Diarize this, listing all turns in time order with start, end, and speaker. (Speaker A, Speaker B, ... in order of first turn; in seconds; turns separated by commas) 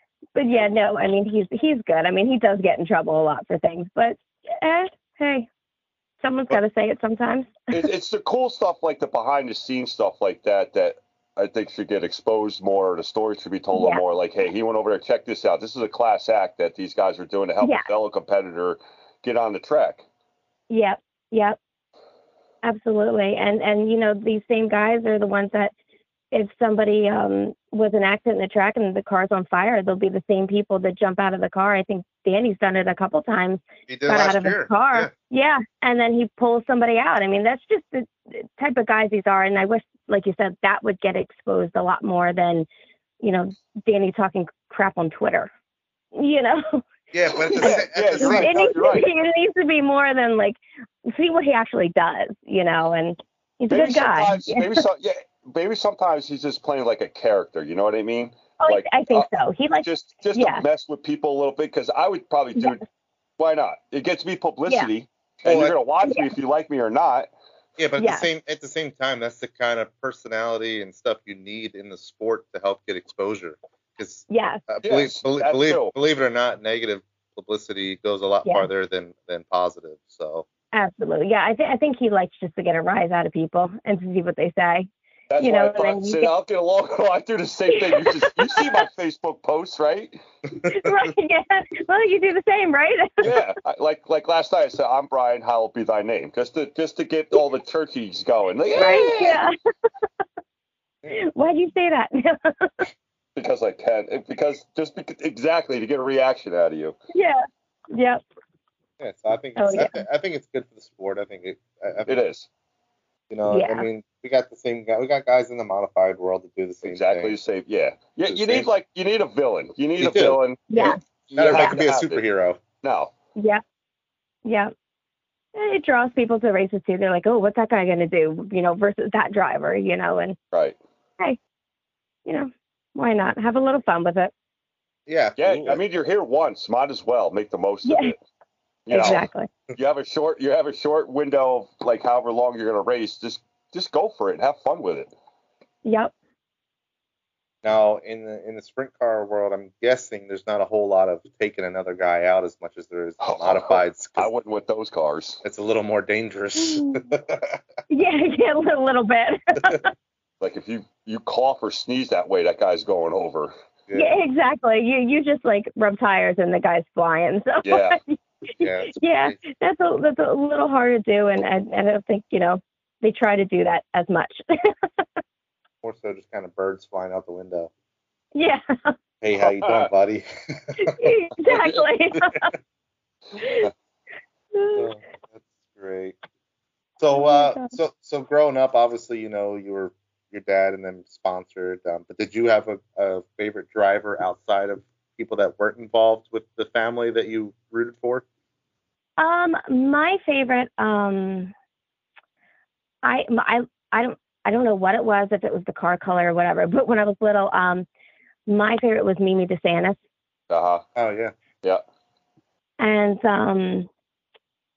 Speaker A: 0.3-5.5, Speaker A: 6.2-7.8, Speaker B: 7.7-20.0, Speaker A: 13.7-14.0, Speaker A: 20.7-21.6, Speaker A: 22.6-25.7, Speaker A: 26.3-42.7, Speaker C: 33.9-35.1, Speaker A: 43.2-45.5, Speaker A: 46.1-46.8, Speaker C: 47.1-48.6, Speaker A: 47.4-54.8, Speaker B: 47.6-49.1, Speaker B: 53.7-59.3, Speaker A: 58.6-60.6, Speaker B: 59.8-62.8, Speaker B: 63.4-67.3, Speaker C: 65.4-65.8, Speaker A: 66.0-66.3, Speaker C: 67.8-80.5, Speaker A: 68.0-68.3, Speaker A: 74.3-74.6, Speaker B: 74.8-75.9, Speaker A: 80.7-84.9, Speaker B: 85.3-90.2, Speaker A: 85.4-86.3, Speaker A: 87.7-88.8, Speaker A: 90.7-93.3, Speaker B: 93.2-99.4, Speaker A: 98.8-99.5, Speaker A: 101.1-102.9, Speaker B: 103.4-107.0, Speaker A: 107.1-108.2, Speaker C: 109.0-112.1, Speaker A: 109.6-110.0, Speaker B: 112.1-112.5, Speaker C: 113.3-117.4, Speaker A: 113.5-113.9, Speaker B: 116.8-120.6, Speaker C: 118.3-118.7, Speaker C: 120.0-122.6, Speaker A: 120.7-121.0, Speaker B: 121.3-122.2, Speaker B: 122.8-123.1, Speaker A: 123.4-123.6, Speaker A: 124.5-124.7, Speaker A: 125.5-130.4, Speaker B: 130.5-130.8, Speaker A: 132.3-134.3, Speaker C: 135.1-135.8, Speaker B: 135.4-138.2, Speaker A: 137.8-138.1, Speaker B: 138.9-139.2, Speaker A: 138.9-139.5, Speaker B: 139.8-145.1, Speaker A: 145.8-146.1, Speaker C: 147.6-154.3, Speaker B: 153.2-155.4, Speaker C: 155.4-157.6, Speaker A: 156.6-157.1, Speaker A: 157.9-159.9, Speaker B: 160.4-163.5, Speaker C: 163.9-164.1, Speaker A: 163.9-175.0, Speaker B: 167.7-168.0, Speaker C: 168.6-169.4, Speaker C: 175.8-177.7, Speaker A: 178.3-178.9, Speaker C: 179.2-181.1, Speaker B: 179.4-179.9, Speaker A: 180.8-182.5, Speaker B: 181.5-181.8, Speaker A: 183.4-183.7, Speaker A: 184.5-184.9, Speaker C: 184.8-186.2, Speaker C: 187.0-198.2, Speaker A: 187.1-187.7, Speaker A: 199.2-201.5, Speaker A: 203.0-207.9, Speaker A: 208.5-210.0, Speaker B: 210.5-210.8, Speaker C: 211.0-211.3, Speaker A: 212.8-213.9